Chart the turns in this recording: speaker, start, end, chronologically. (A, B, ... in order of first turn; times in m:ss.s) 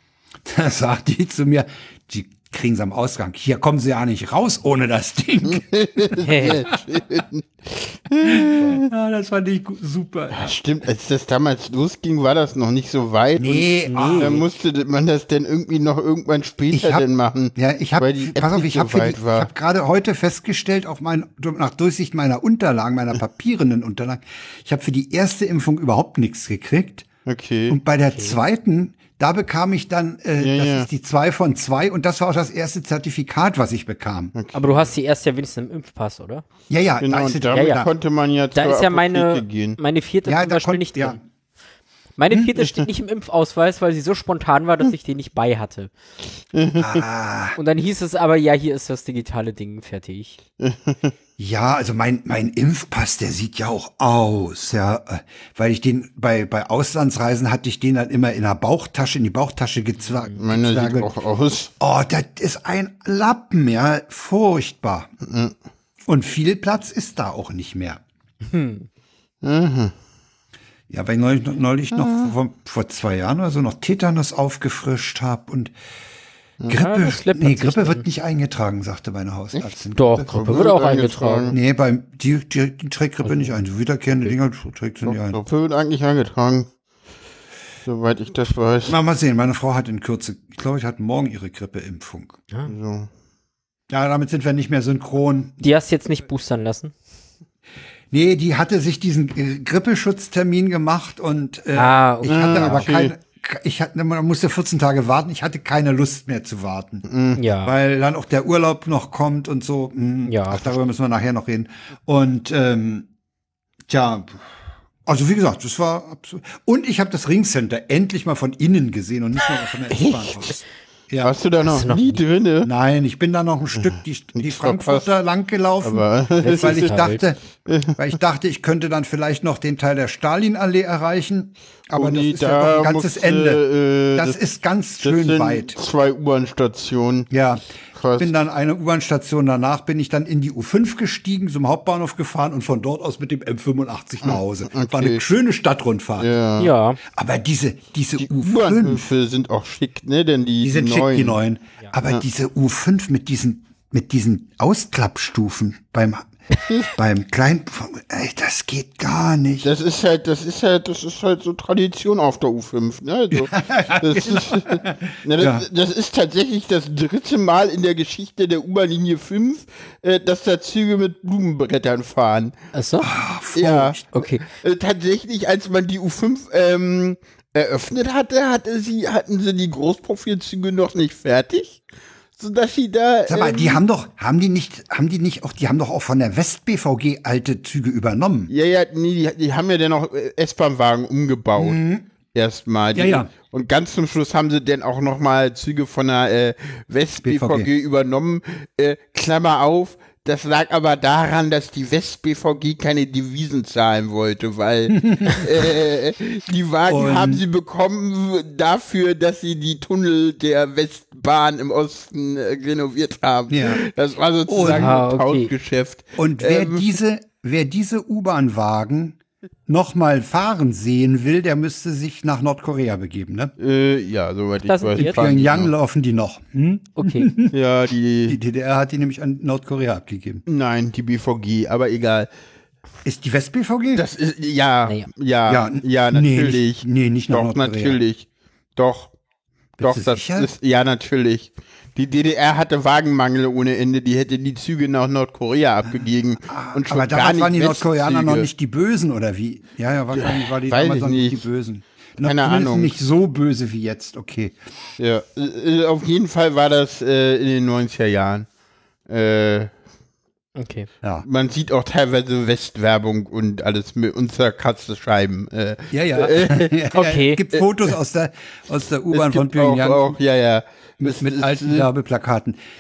0:00.4-0:06.2 A
0:05.6-0:08.9 B
0:06.2-0:06.7 C
0:08.2-0:10.5 A
0:10.3-0:19.5 B
0:13.4-0:14.4 A
0:13.9-0:14.4 C
0:16.7-0:17.0 A
0:17.6-0:27.1 A
0:27.3-0:27.8 B
0:27.7-0:34.3 A
0:28.1-0:28.4 C
0:30.4-0:30.9 B
0:34.4-0:34.8 B
0:34.5-0:36.4 C
0:36.7-0:37.9 A
0:37.0-0:39.8 B
0:37.5-0:37.8 C
0:38.6-0:41.2 C
0:40.2-0:41.2 A
0:42.2-0:45.9 C
0:46.5-0:47.0 B
0:46.8-0:47.6 A
0:47.6-0:50.4 C
0:50.6-0:51.1 B
0:51.4-1:01.1 A
1:00.0-1:00.4 C
1:00.4-1:01.7 B
1:01.8-1:05.1 A
1:05.2-1:05.5 B
1:06.0-1:08.0 A
1:08.4-1:08.9 C
1:09.4-1:09.9 B
1:10.9-1:15.7 A
1:11.9-1:12.3 B
1:16.7-1:20.3 A
1:16.7-1:18.0 C
1:20.0-1:21.5 C
1:20.3-1:21.6 B
1:21.5-1:25.4 A
1:23.2-1:23.6 C
1:25.0-1:26.7 B
1:27.8-1:29.0 B
1:28.9-1:32.4 A
1:32.7-1:33.1 B
1:33.9-1:35.6 A
1:35.6-1:36.9 C
1:38.1-1:47.1 A
1:41.7-1:42.9 C
1:42.2-1:43.1 B
1:47.1-1:47.4 B
1:47.4-1:47.7 C
1:47.6-1:53.1 A
1:50.3-1:50.8 C
1:53.9-1:54.5 A
1:55.1-2:01.3 A
1:59.9-2:00.6 B
2:01.2-2:02.7 B
2:01.6-2:02.2 C
2:02.6-2:07.4 A
2:04.4-2:05.1 B
2:05.8-2:07.1 B
2:06.4-2:07.2 C
2:07.6-2:08.0 B
2:08.0-2:13.6 A
2:11.9-2:14.4 B
2:14.2-2:15.8 A
2:15.0-2:17.3 B
2:17.3-2:26.3 A
2:17.9-2:18.3 B
2:24.2-2:25.2 B
2:26.2-2:26.7 B
2:26.6-2:27.0 C
2:27.1-2:29.0 A
2:28.2-2:31.4 B
2:30.6-2:36.3 A
2:36.9-2:39.7 A
2:39.6-2:52.6 B
2:43.3-2:45.7 A
2:52.7-2:53.1 C
2:53.0-2:54.0 A
2:53.6-3:01.8 B
2:54.1-2:54.5 C
3:02.4-3:03.8 B
3:03.3-3:08.5 A
3:08.5-3:11.8 B
3:11.6-3:12.1 A
3:12.3-3:36.9 B
3:12.9-3:13.3 A
3:17.2-3:17.7 A
3:24.9-3:25.8 A
3:26.9-3:27.4 A
3:33.5-3:33.8 A
3:34.5-3:35.0 A
3:34.6-3:35.5 C
3:36.2-3:43.5 A
3:43.6-3:45.7 B
3:44.7-3:45.2 C
3:45.0-3:47.6 A
3:47.0-3:47.3 C
3:47.5-3:48.4 B
3:48.3-3:50.4 A
3:50.5-3:52.3 B
3:53.0-3:54.0 A
3:54.0-3:59.1 B
3:55.5-3:58.0 A
3:59.8-4:00.5 A
3:59.8-4:08.5 B
4:06.5-4:14.6 A
4:10.2-4:11.4 B
4:12.2-4:13.0 B
4:15.0-4:18.5 B
4:19.1-4:19.7 B
4:20.6-4:20.9 C
4:21.2-4:26.8 B
4:25.9-4:30.2 A
4:26.9-4:27.4 C
4:29.1-4:31.9 B
4:31.0-4:32.6 A